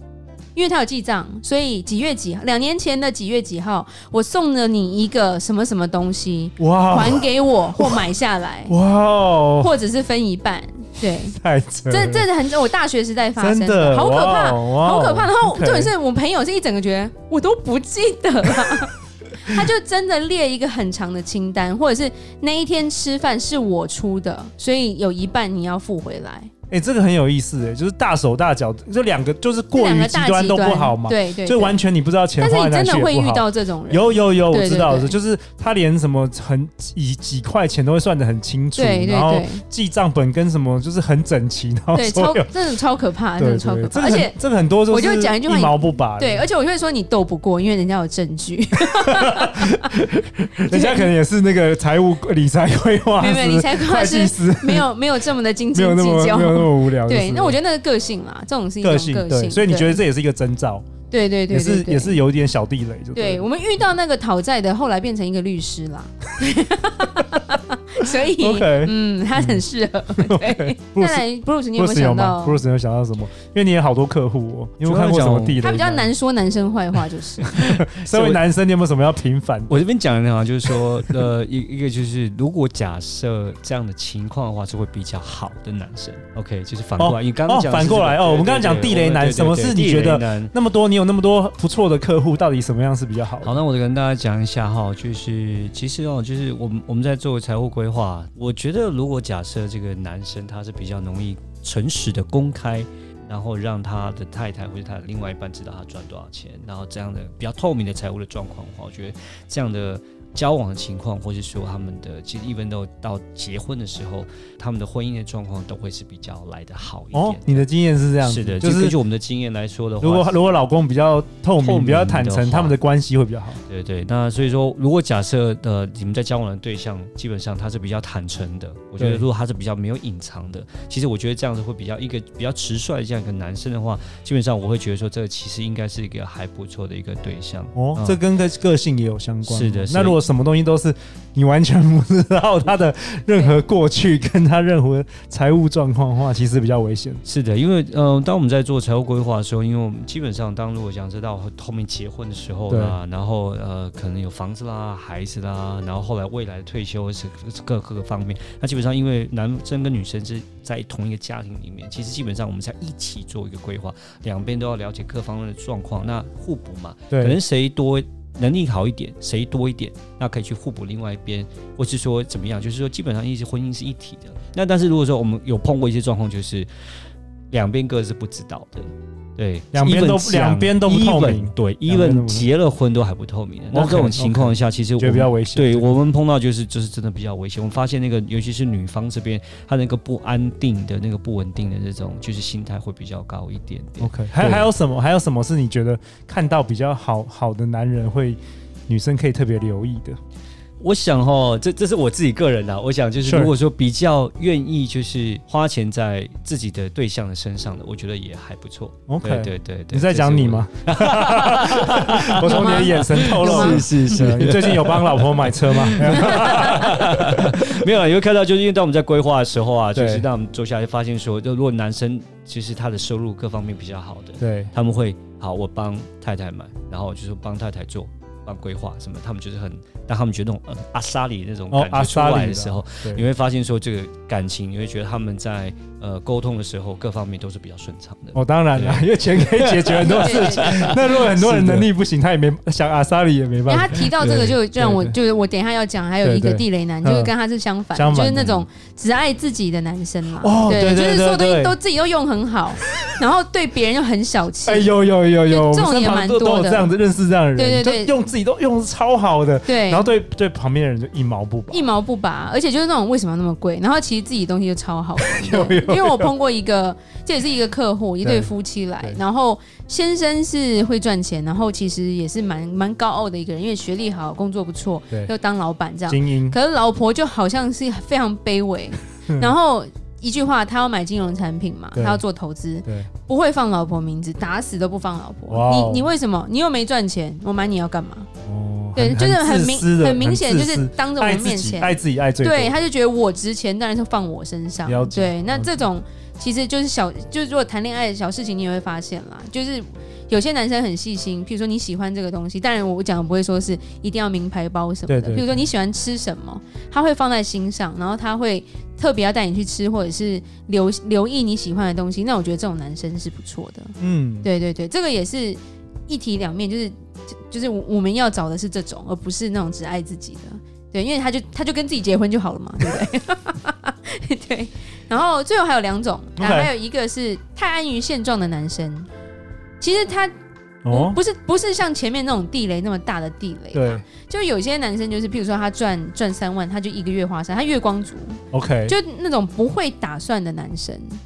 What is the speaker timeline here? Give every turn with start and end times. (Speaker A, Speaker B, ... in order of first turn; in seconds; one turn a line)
Speaker A: 0.6-8.7
Speaker B: 6.6-8.0
Speaker B: 8.7-9.8
Speaker A: 9.6-11.4
Speaker B: 11.3-12.3
Speaker A: 11.9-26.5
Speaker B: 13.4-15.9
Speaker B: 26.7-42.5
Speaker A: 29.7-31.8
Speaker A: 32.4-35.1
Speaker A: 38.8-39.6
Speaker A: 41.9-44.4
Speaker B: 43.4-46.5
Speaker A: 44.9-49.8
Speaker B: 49.1-54.9
Speaker A: 50.7-51.1
Speaker A: 53.2-60.0
Speaker B: 55.7-57.6
Speaker B: 58.8-60.9
Speaker A: 61.1-62.2
Speaker B: 61.5-63.5
Speaker A: 63.1-72.6
Speaker B: 68.2-69.6
Speaker B: 70.2-76.1
Speaker C: 74.8-75.6
Speaker A: 75.6-77.6
Speaker B: 77.5-79.7
Speaker C: 78.0-78.4
Speaker C: 79.7-90.5
Speaker B: 87.0-93.5
Speaker C: 93.4-117.7
Speaker B: 117.1-119.0
Speaker C: 118.2-120.3
Speaker B: 120.0-123.6
Speaker C: 121.6-122.8
Speaker C: 123.7-138.2
Speaker B: 129.0-129.2
Speaker B: 137.8-147.2
Speaker C: 139.5-140.2
Speaker C: 147.2-176.7
Speaker B: 152.7-153.0
Speaker B: 167.1-167.4
Speaker C: 177.5-194.7
Speaker B: 179.7-182.5
Speaker B: 183.7-186.0
Speaker B: 194.0-200.2
Speaker C: 200.8-241.9
Speaker B: 203.2-203.5
Speaker B: 209.1-217.4
Speaker A: 212.4-213.8
Speaker B: 219.9-220.2
Speaker B: 224.4-224.7
Speaker B: 231.7-233.2
Speaker B: 238.3-245.1
Speaker A: 240.0-240.9
Speaker A: 243.7-254.9
Speaker B: 246.2-247.3
Speaker B: 247.9-248.7
Speaker B: 250.4-251.8
Speaker B: 254.6-261.9
Speaker A: 255.5-256.9
Speaker A: 257.6-258.2
Speaker A: 259.6-260.1
Speaker A: 261.7-288.3
Speaker B: 265.2-266.3
Speaker B: 268.2-269.2
Speaker B: 276.1-276.6
Speaker B: 281.9-282.2
Speaker B: 285.5-286.1
Speaker B: 288.4-292.8
Speaker A: 289.0-329.1
Speaker B: 294.9-295.8
Speaker B: 305.1-305.6
Speaker B: 314.0-314.5
Speaker B: 326.4-326.7
Speaker A: 329.8-330.3
Speaker B: 330.9-331.2
Speaker A: 330.9-341.2
Speaker B: 333.7-334.0
Speaker B: 338.5-339.0